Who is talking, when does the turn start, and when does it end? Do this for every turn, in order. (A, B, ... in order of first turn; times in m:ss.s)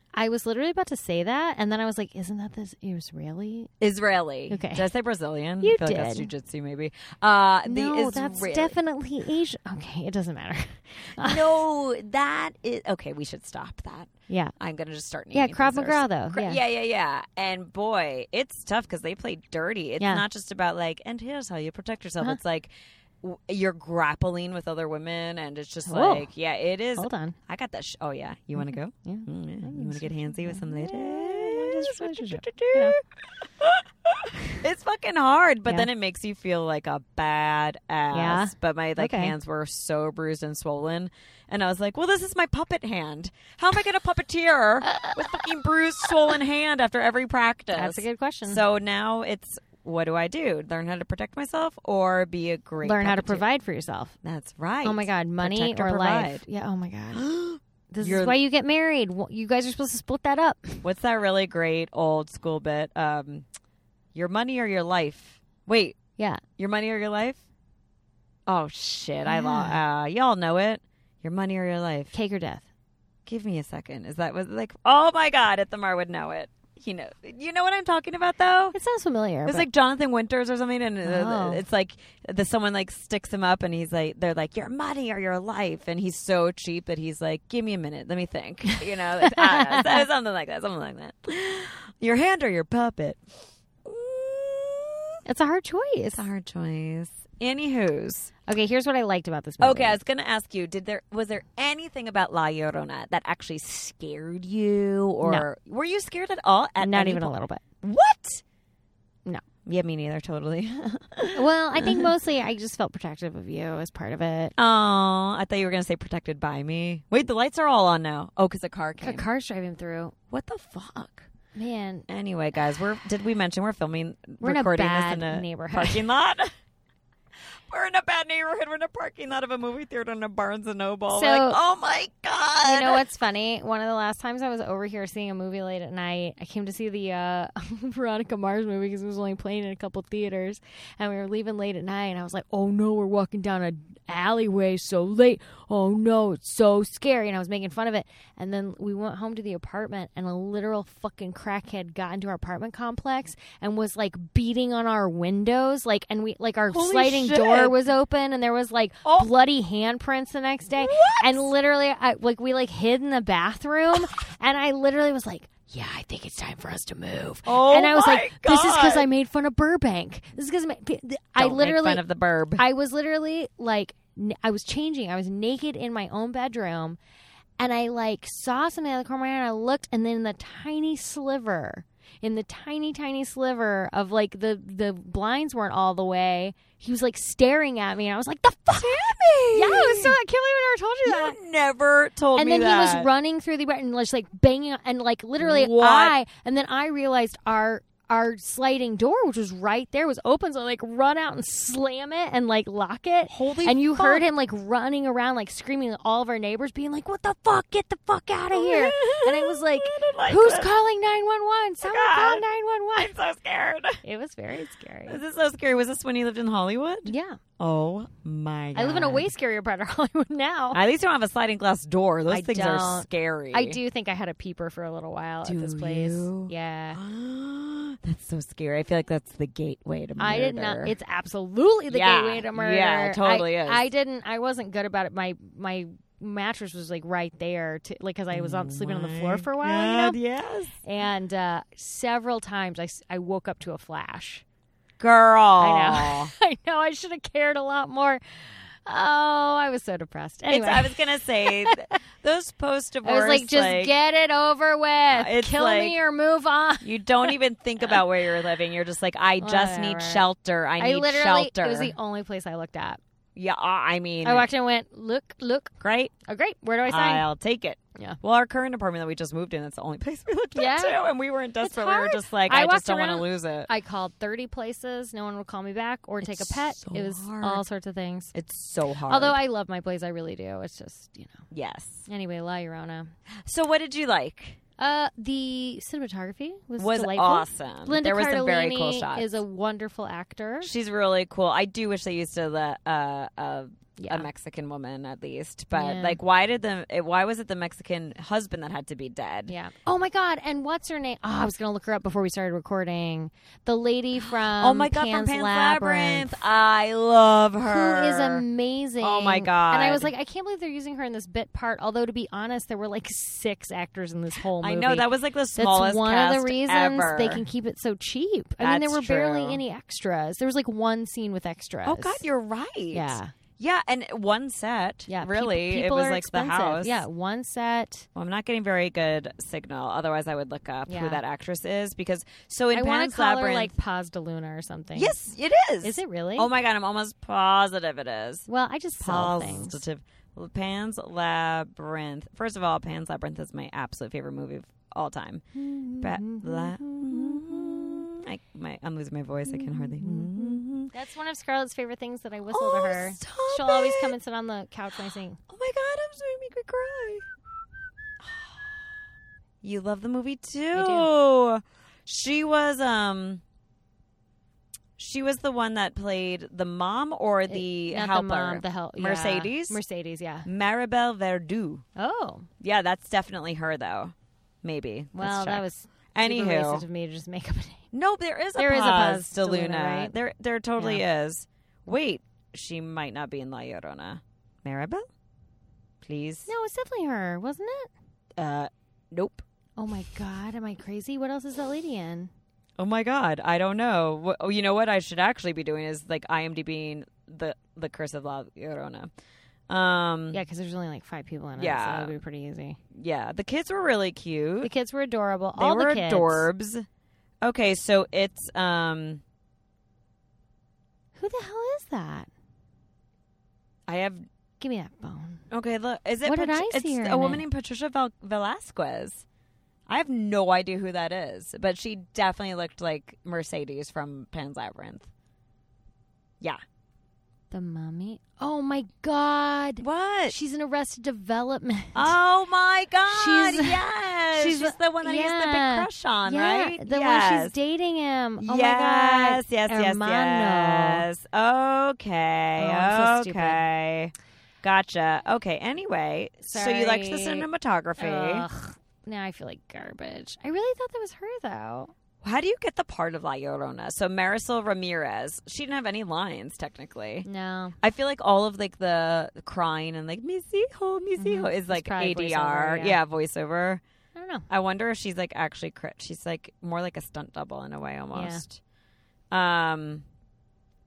0:00.2-0:03.7 A
0:03.8-0:08.8 B
0:04.5-0:04.9 A
0:05.6-0:06.3 A
0:07.6-0:11.6 A
0:11.2-0:33.0 B
0:14.3-0:14.5 A
0:15.3-0:16.6 A
0:25.9-0:26.3 A
0:27.0-0:27.4 A
0:28.6-0:33.0 A
0:33.6-0:53.4 B
0:38.1-0:39.3 A
0:44.9-0:45.2 A
0:47.7-0:48.6 A
0:52.8-0:54.2 A
0:54.2-0:56.4 B
0:54.8-0:57.3 A
0:57.1-0:58.4 B
0:57.9-1:00.8 A
1:00.8-1:03.5 B
1:04.1-1:06.0 B
1:06.2-1:06.4 A
1:06.6-1:07.4 B
1:08.5-1:12.1 B
1:09.2-1:09.8 A
1:12.1-1:12.7 A
1:13.3-1:18.8 B
1:18.7-1:19.7 A
1:19.5-1:33.2 B
1:21.0-1:21.6 A
1:29.2-1:30.0 A
1:33.8-1:35.2 B
1:35.3-1:36.2 A
1:36.1-1:38.3 B
1:38.5-1:40.0 A
1:39.6-1:48.4 B
1:46.8-1:47.6 A
1:49.7-1:52.1 B
1:51.3-1:54.6 A
1:54.6-1:59.3 B
1:59.0-2:00.2 A
2:00.3-2:01.3 B
2:01.6-2:02.1 A
2:02.1-2:06.5 B
2:04.4-2:06.0 A
2:07.7-2:13.0 B
2:11.1-2:11.6 A
2:12.6-2:52.0 A
2:36.7-2:37.8 B
2:39.0-2:39.3 B
2:40.7-2:41.5 B
2:47.5-2:49.1 B
2:51.4-2:52.6 B
2:52.6-2:57.0 A
2:57.6-3:11.4 A
3:08.8-3:10.2 B
3:11.0-3:13.1 B
3:12.4-3:33.2 A
3:15.4-3:16.2 B
3:23.3-3:24.3 B
3:28.5-3:30.7 B
3:31.8-3:32.4 B
3:33.0-3:34.0 B
3:34.0-3:35.2 A
3:35.1-3:39.3 B
3:37.1-3:37.4 A
3:38.8-3:40.8 A
3:40.7-3:43.8 B
3:42.3-3:47.0 A
3:45.4-3:51.0 B
3:50.2-4:00.2 A
3:51.9-3:53.9 B
3:58.3-4:00.8 B
4:00.8-4:04.4 A
4:05.0-4:06.3 B
4:05.6-4:08.2 A
4:08.9-4:12.0 A
4:10.5-4:13.9 B
4:13.0-4:17.4 A
4:15.1-4:16.0 B
4:16.8-4:22.0 B
4:19.4-4:20.2 A
4:20.8-4:23.0 A
4:23.4-4:24.5 B
4:24.2-4:27.3 A
4:25.8-4:26.1 B
4:26.9-4:33.7 B
4:30.6-4:31.0 A
4:31.6-4:38.3 A
4:36.2-4:37.6 B
4:38.3-4:39.4 B
4:39.1-4:41.4 A
4:41.5-4:42.1 B
4:42.1-4:43.1 A
4:43.4-4:44.6 B
4:44.8-4:50.7 A
4:46.8-4:49.4 B
4:50.6-4:59.5 B
4:54.0-4:54.3 A
4:55.8-4:56.2 A
4:59.5-5:06.4 A
5:04.3-5:08.4 B
5:07.6-5:22.2 A
5:09.0-5:10.1 B
5:14.6-5:17.4 B
5:18.6-5:19.6 B
5:21.8-5:27.0 B
5:22.9-5:23.3 A
5:25.1-5:28.1 A
5:28.2-5:33.7 B
5:30.9-5:31.2 A
5:32.7-5:35.2 A
5:35.0-5:38.5 B
5:35.8-5:36.5 A
5:38.5-5:39.8 A
5:39.0-5:45.4 B
5:45.6-5:48.1 A
5:46.0-5:50.9 B
5:49.5-5:55.4 A
5:52.5-5:54.1 B
5:55.5-5:57.3 B
5:59.6-6:03.4 B
6:00.7-6:01.1 A
6:05.0-6:09.8 B
6:07.5-6:10.5 A
6:10.4-6:11.8 B
6:12.0-6:12.5 A
6:12.6-6:16.8 B
6:15.2-6:17.8 A
6:17.9-6:25.1 B
6:18.6-6:20.2 A
6:20.8-6:21.0 A
6:26.0-6:26.5 B
6:26.5-6:27.9 A
6:28.4-6:29.4 B
6:29.8-6:32.3 A
6:32.8-6:39.1 B
6:39.7-6:40.4 B
6:40.3-6:42.8 A
6:41.6-6:42.1 B
6:42.9-6:44.7 B
6:44.6-6:46.5 A
6:45.6-6:46.8 B
6:47.4-6:49.2 B
6:51.2-6:52.3 A
6:53.9-6:54.2 B
6:54.6-6:55.4 A
6:55.5-6:59.2 B
6:56.2-6:57.4 A
6:59.9-7:05.1 B
7:07.5-7:12.2 A
7:09.8-7:10.4 B
7:12.0-7:17.5 B
7:13.1-7:21.1 A
7:18.4-7:28.5 B
7:22.6-7:23.6 A
7:26.4-7:27.5 A
7:28.0-7:31.9 A
7:32.2-7:37.3 B
7:37.2-7:37.8 A
7:37.8-7:43.8 B
7:41.2-7:43.0 A
7:44.2-7:44.5 A
7:44.5-7:48.6 B
7:48.1-7:48.4 A
7:49.3-7:50.0 B